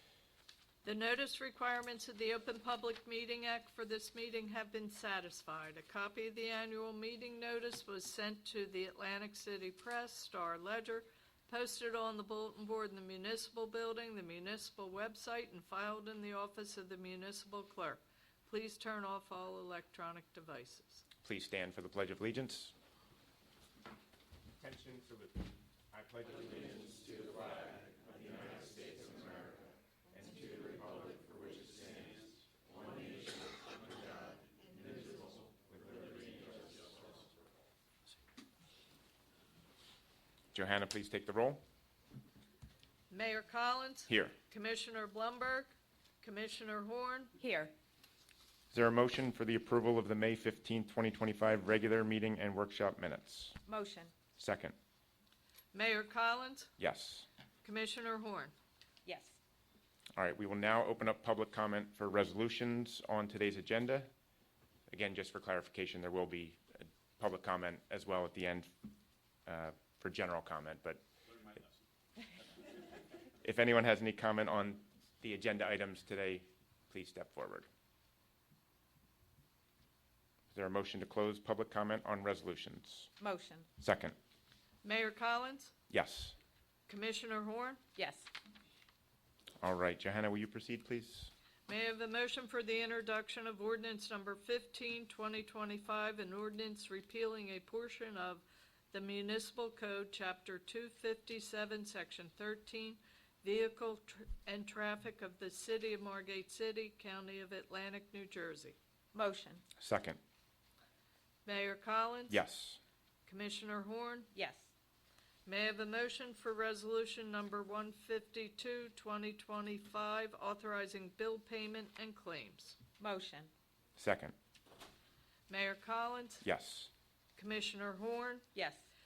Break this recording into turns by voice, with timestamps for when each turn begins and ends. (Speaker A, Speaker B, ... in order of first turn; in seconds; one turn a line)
Speaker A: 0.8-21.0
Speaker B: 21.2-22.7
Speaker B: 24.6-37.0
Speaker B: 40.5-41.6
Speaker A: 43.1-47.3
Speaker B: 44.1-44.3
Speaker C: 47.4-47.7
Speaker B: 48.7-53.6
Speaker C: 53.6-54.1
Speaker B: 54.3-54.7
Speaker A: 55.7-56.7
Speaker B: 56.8-57.2
Speaker A: 57.6-58.5
Speaker C: 59.0-59.4
Speaker B: 60.1-64.1
Speaker B: 64.9-68.7
Speaker B: 69.5-71.0
Speaker B: 73.4-77.7
Speaker B: 80.5-83.1
Speaker C: 83.2-83.7
Speaker B: 83.8-84.2
Speaker A: 84.8-85.7
Speaker B: 85.9-86.3
Speaker A: 86.9-87.8
Speaker C: 88.0-88.3
Speaker B: 89.6-91.3
Speaker A: 91.7-108.8
Speaker C: 109.1-109.6
Speaker B: 109.8-110.2
Speaker A: 111.4-112.4
Speaker B: 112.3-112.8
Speaker A: 113.2-114.3
Speaker C: 114.3-114.7
Speaker A: 115.5-122.8
Speaker C: 123.0-123.5
Speaker B: 124.0-124.3
Speaker A: 125.5-126.5
Speaker B: 126.4-126.9
Speaker A: 127.3-128.5
Speaker C: 128.5-128.9